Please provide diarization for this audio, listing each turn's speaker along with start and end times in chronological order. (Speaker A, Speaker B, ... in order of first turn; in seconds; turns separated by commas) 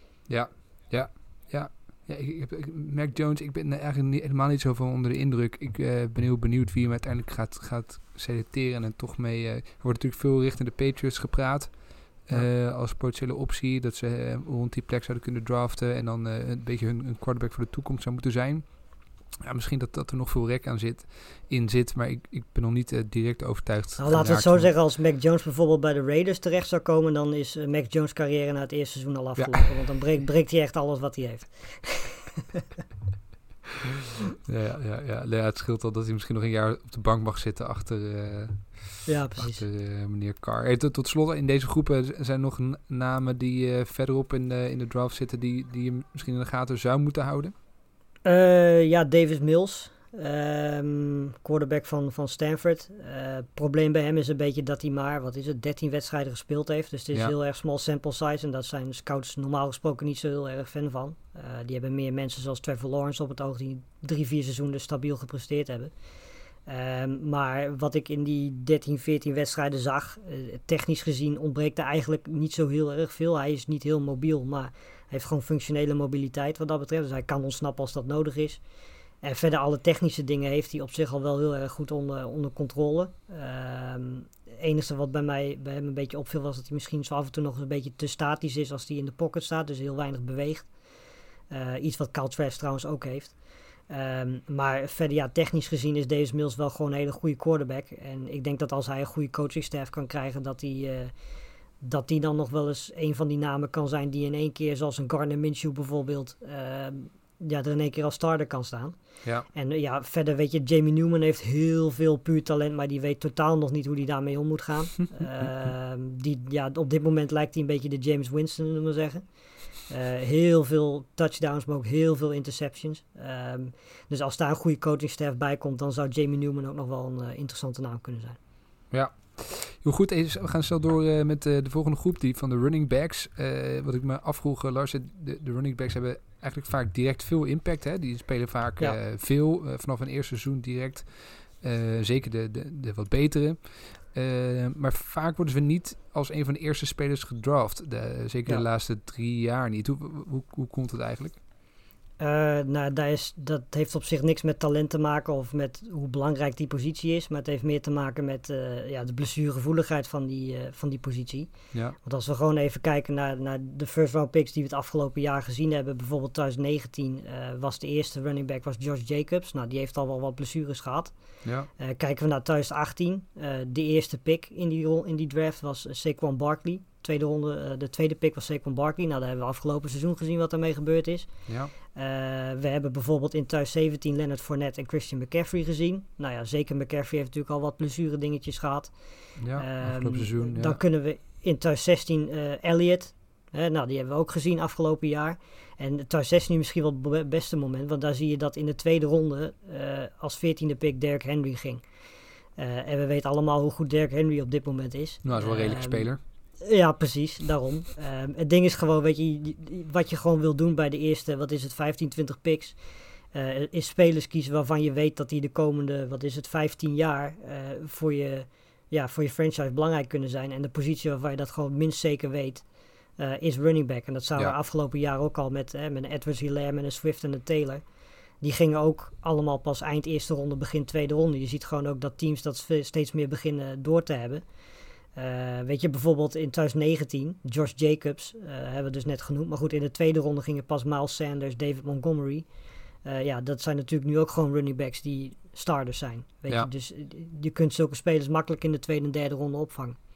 Speaker A: 0.3-24.7, Speaker B: 24.0-32.6, Speaker A: 34.4-47.5, Speaker B: 39.0-39.6, Speaker B: 48.2-66.0, Speaker B: 66.7-78.6, Speaker B: 79.2-90.7, Speaker B: 91.5-101.1, Speaker B: 101.8-128.4, Speaker A: 128.9-151.4, Speaker B: 152.2-201.8, Speaker A: 171.4-171.7, Speaker A: 181.5-181.7, Speaker A: 189.4-190.8, Speaker B: 202.6-227.8, Speaker A: 205.2-206.2, Speaker B: 228.4-234.4, Speaker B: 235.1-242.5, Speaker B: 243.0-250.0